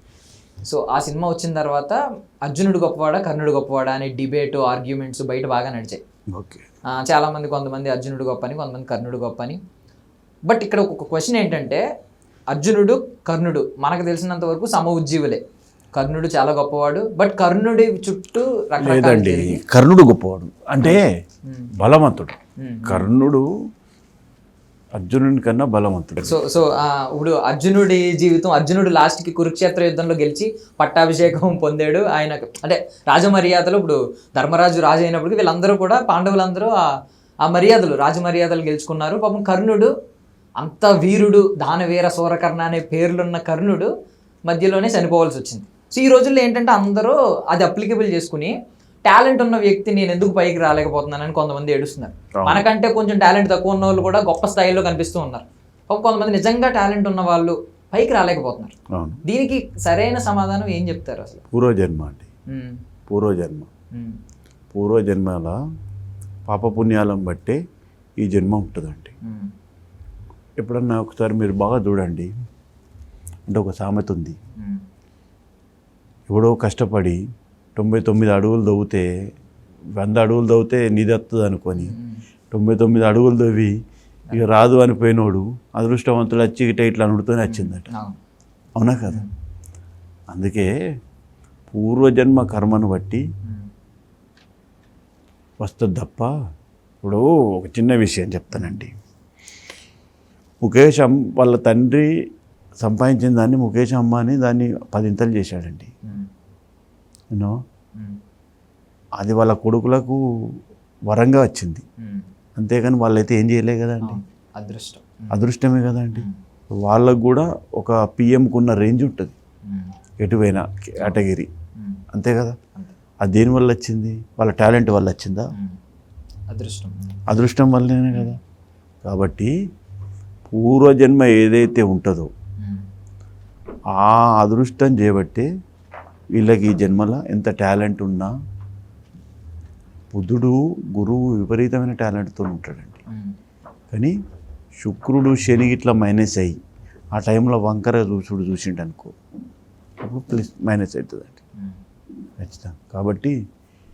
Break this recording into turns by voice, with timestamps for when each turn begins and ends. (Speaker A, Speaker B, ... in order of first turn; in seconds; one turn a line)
Speaker A: 0.6-6.0
Speaker B: 6.3-6.7
Speaker A: 6.9-9.6
Speaker A: 10.4-11.8
Speaker A: 12.5-15.4
Speaker A: 15.9-19.6
Speaker B: 18.8-21.1
Speaker A: 20.8-21.7
Speaker B: 21.8-23.5
Speaker A: 22.6-23.1
Speaker B: 24.9-26.4
Speaker A: 26.2-36.9
Speaker A: 37.4-39.9
Speaker A: 40.6-43.9
Speaker A: 44.5-48.5
Speaker A: 49.0-61.4
Speaker B: 52.4-52.7
Speaker B: 58.9-59.2
Speaker B: 61.5-62.2
Speaker A: 62.5-62.8
Speaker B: 63.1-63.7
Speaker A: 63.9-64.2
Speaker B: 64.7-65.6
Speaker B: 66.5-67.6
Speaker B: 68.2-69.1
Speaker A: 69.2-69.5
Speaker B: 70.6-72.3
Speaker B: 73.5-74.4
Speaker A: 74.6-74.8
Speaker B: 76.3-77.2
Speaker B: 77.8-79.1
Speaker B: 80.0-82.0
Speaker A: 81.8-82.2
Speaker B: 82.5-83.7
Speaker B: 84.3-87.9
Speaker A: 87.5-88.2
Speaker B: 88.8-89.2
Speaker B: 90.3-90.7
Speaker B: 91.7-93.2
Speaker B: 95.6-96.3
Speaker B: 97.0-98.9
Speaker A: 98.5-98.8
Speaker B: 100.6-102.1
Speaker B: 102.8-105.9
Speaker B: 107.3-107.6
Speaker B: 109.2-110.2
Speaker B: 111.1-111.8
Speaker A: 112.0-112.3
Speaker B: 112.5-114.2
Speaker A: 114.0-115.3
Speaker B: 115.3-116.3
Speaker B: 116.8-119.3
Speaker A: 119.7-119.9
Speaker B: 120.2-121.5
Speaker A: 121.8-122.0
Speaker B: 122.1-122.5
Speaker B: 123.2-125.5
Speaker A: 126.5-127.2
Speaker B: 127.3-128.4
Speaker B: 129.0-129.5
Speaker B: 130.5-132.3
Speaker A: 132.6-132.9
Speaker B: 133.9-135.5
Speaker B: 136.3-138.3
Speaker B: 140.1-143.0
Speaker A: 143.1-143.3
Speaker B: 144.8-146.6
Speaker B: 147.1-149.1
Speaker B: 150.0-151.4
Speaker B: 152.4-153.3